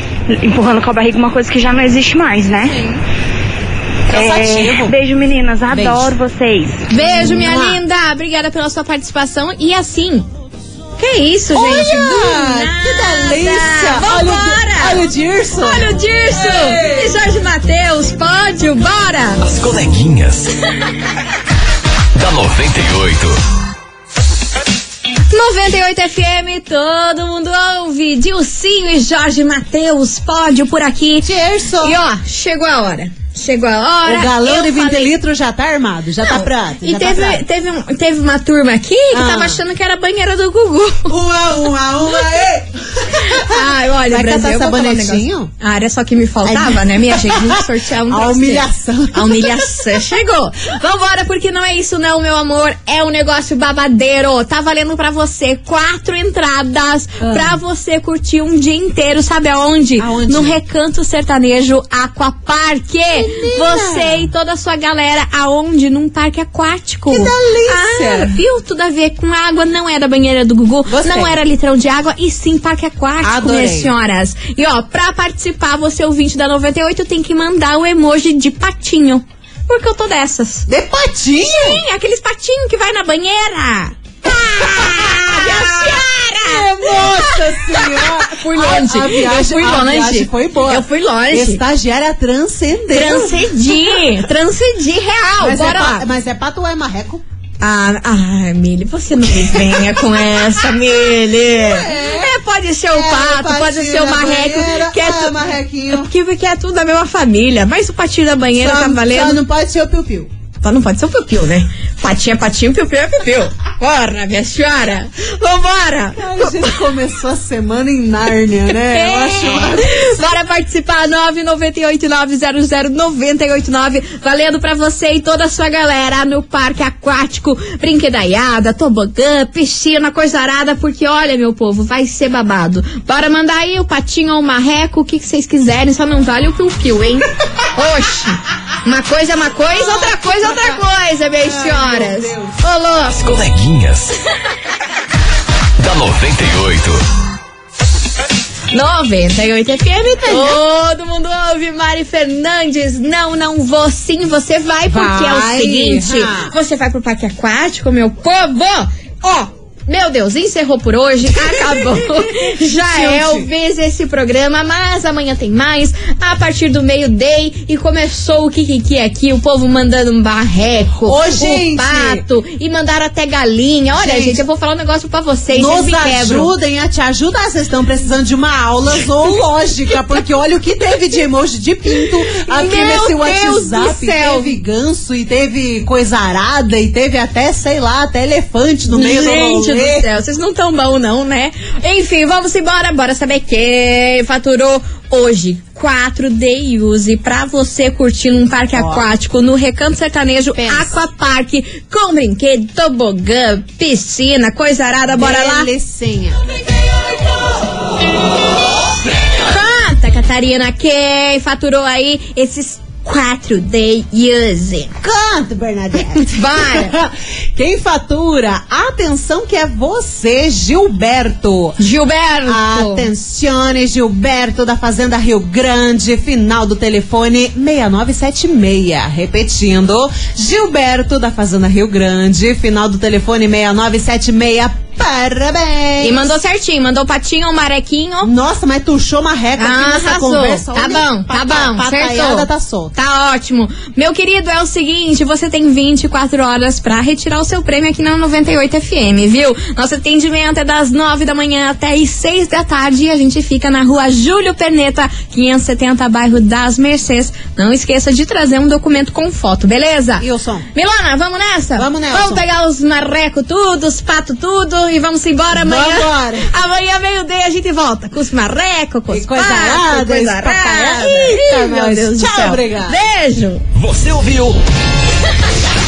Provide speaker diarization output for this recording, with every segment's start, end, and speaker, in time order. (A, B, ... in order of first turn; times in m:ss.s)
0:00.3-0:02.8 A
0:02.6-0:03.0 B
0:04.1-0:05.0 B
0:04.1-0:06.9 A
0:05.7-0:06.1 B
0:06.9-0:10.3 C
0:07.0-0:07.8 B
0:11.0-0:19.4 C
0:11.5-0:17.2 B
0:19.4-0:20.5 D
0:22.1-0:23.4 D
0:25.3-0:31.3 C
0:31.2-0:32.0 B
0:31.8-0:35.1 C
0:34.0-0:37.4 B
0:36.2-0:41.1 C
0:39.1-0:39.6 B
0:41.1-0:45.5 B
0:43.1-1:20.7 C
0:46.4-0:49.8 B
0:57.2-0:57.6 B
1:00.0-1:00.5 B
1:03.1-1:04.3 B
1:07.1-1:08.4 B
1:10.8-1:11.4 B
1:13.2-1:13.9 B
1:20.7-1:21.8 B
1:21.4-1:31.6 C
1:24.3-1:34.1 B
1:32.9-1:36.0 C
1:35.4-1:37.2 B
1:37.6-1:45.4 C
1:39.4-1:40.6 B
1:41.5-1:42.4 B
1:42.9-1:46.1 B
1:45.9-1:49.4 C
1:48.6-1:50.3 B
1:50.6-1:56.7 C
1:56.2-2:00.3 B
1:58.9-2:23.2 C
2:19.7-2:20.8 B
2:21.4-2:22.6 B
2:23.1-2:24.2 D
2:25.8-2:27.0 D
2:28.7-2:56.5 C
2:30.2-2:30.6 B
2:34.8-2:36.5 B
2:41.3-2:43.5 B
2:51.0-2:52.2 B
2:53.9-2:54.4 B
2:55.5-3:10.0 B
3:02.5-3:04.5 C
3:08.9-3:25.7 C
3:18.7-3:19.1 B
3:20.5-3:21.0 B
3:25.1-3:26.4 B
3:29.4-3:35.0 C
3:35.0-3:41.8 B
3:36.2-3:37.0 C
3:41.8-3:43.1 C
3:42.4-3:56.3 B
3:56.0-3:58.3 C
3:58.2-4:02.9 B
3:59.6-4:33.6 C
4:20.2-4:20.6 B
4:21.8-4:22.4 B
4:25.5-4:26.5 B
4:29.1-4:33.0 B
4:33.7-4:34.6 D